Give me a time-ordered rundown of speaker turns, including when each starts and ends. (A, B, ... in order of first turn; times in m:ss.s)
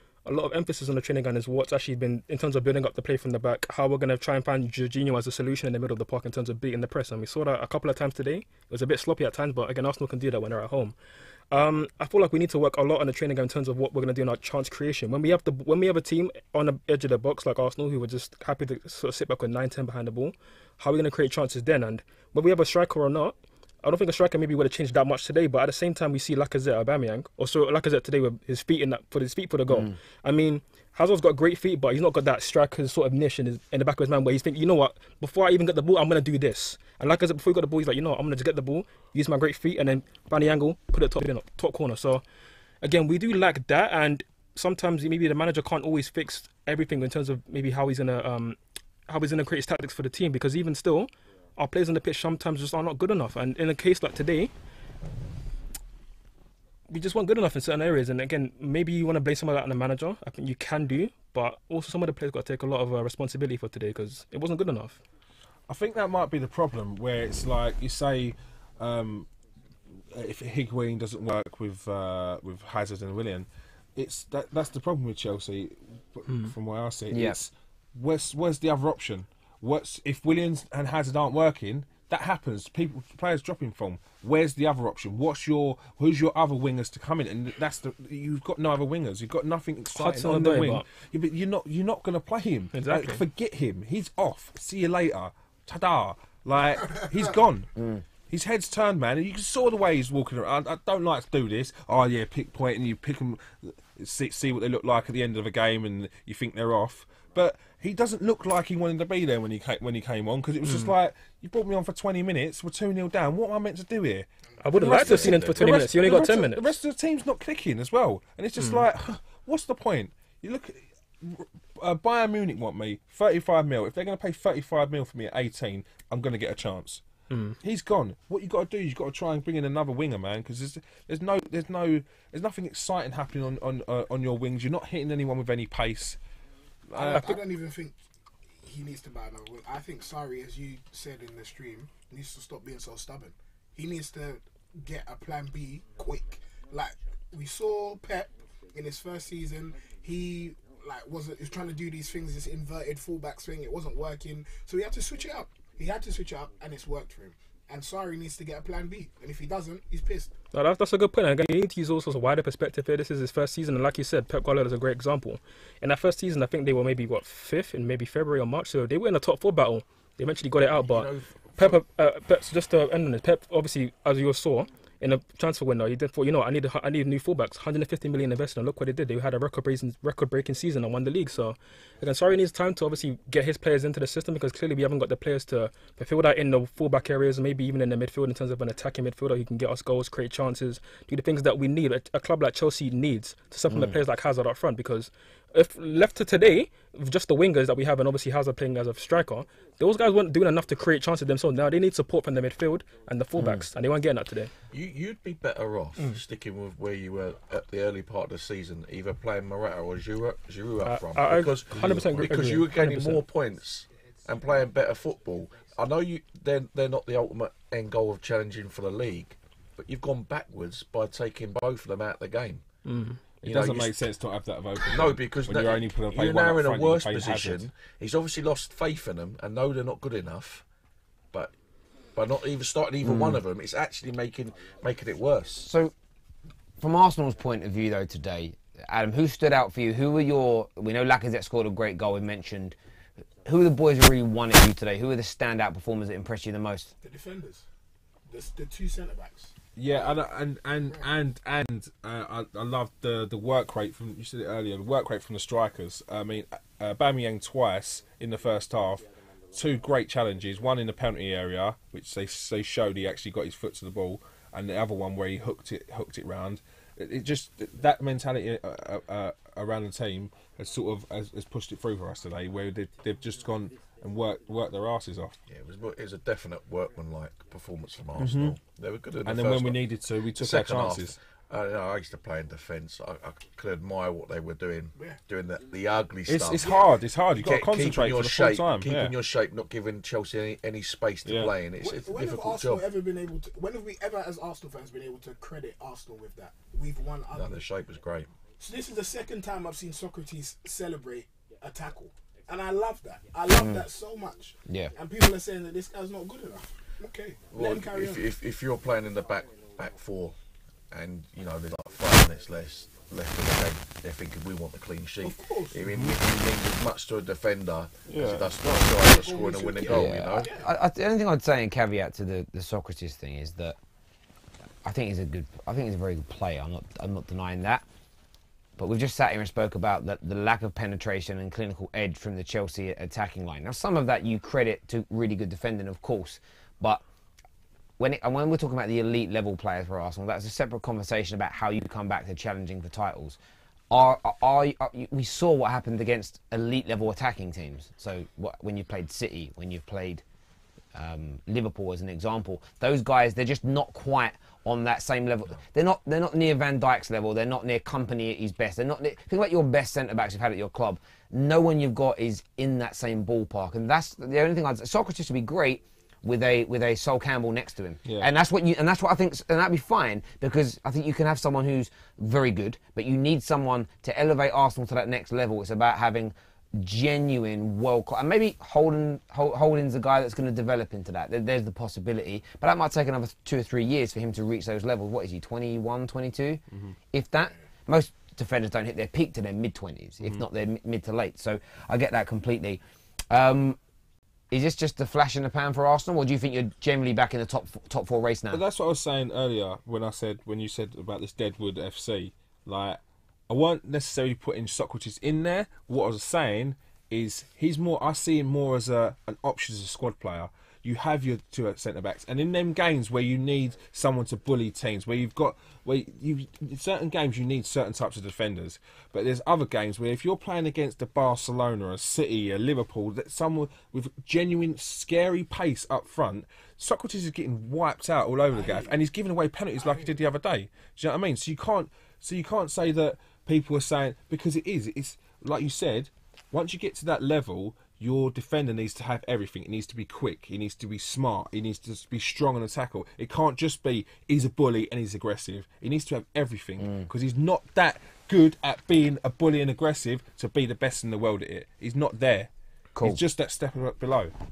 0:00.2-0:11.0 A
0:11.5-0:42.2 A
0:42.8-0:54.5 A
0:56.9-1:05.0 A
1:05.7-1:09.3 B
1:10.1-1:37.7 B
1:17.1-1:17.4 C
1:29.9-1:30.8 A
1:32.7-1:33.2 A
1:38.3-2:07.0 B
1:54.6-1:56.7 A
1:54.8-1:55.6 D
2:07.3-2:07.6 A
2:07.6-2:16.2 B
2:16.9-2:17.3 B
2:16.9-2:18.0 E
2:17.1-2:17.3 A
2:18.6-2:40.3 E
2:40.5-3:24.5 A
2:50.7-2:51.8 D
3:13.7-3:14.0 C
3:24.7-3:42.6 D
3:30.8-3:33.2 A
3:31.8-3:32.1 B
3:42.8-3:43.2 A
3:43.4-3:44.0 D
3:43.4-3:47.7 B
3:44.8-3:50.6 D
3:52.1-3:55.6 D
3:53.0-3:53.4 C
3:55.6-3:55.9 C
3:56.8-4:02.8 C
4:03.4-4:06.9 C
4:07.0-4:07.6 E
4:08.3-4:09.5 E
4:09.8-4:35.4 B
4:10.7-4:11.1 E
4:35.4-4:39.8 D
4:38.2-4:38.6 B
4:39.2-4:41.2 B
4:40.3-4:46.8 D
4:44.9-4:45.2 E
4:46.2-4:49.1 B
4:46.5-4:47.0 E
4:47.3-4:52.8 D
4:51.2-4:51.5 B
4:51.7-4:57.7 E
4:57.3-4:58.3 D
4:58.6-5:08.2 E
5:03.6-5:03.8 C
5:04.7-5:04.9 C
5:07.5-5:10.4 D
5:10.9-5:20.5 D
5:15.2-5:15.9 E
5:15.9-5:16.2 B
5:18.0-5:19.0 B
5:18.5-5:20.7 E
5:19.8-5:23.8 C
5:24.8-5:27.8 C
5:28.8-5:37.0 C
5:38.0-5:43.4 C
5:43.9-5:50.2 C
5:50.9-6:26.6 C
6:27.1-6:33.8 C
6:34.5-6:38.6 C
6:38.5-7:32.5 B
7:08.5-7:09.0 E
7:09.8-7:10.1 E
7:26.8-7:27.1 C
7:33.0-7:34.3 B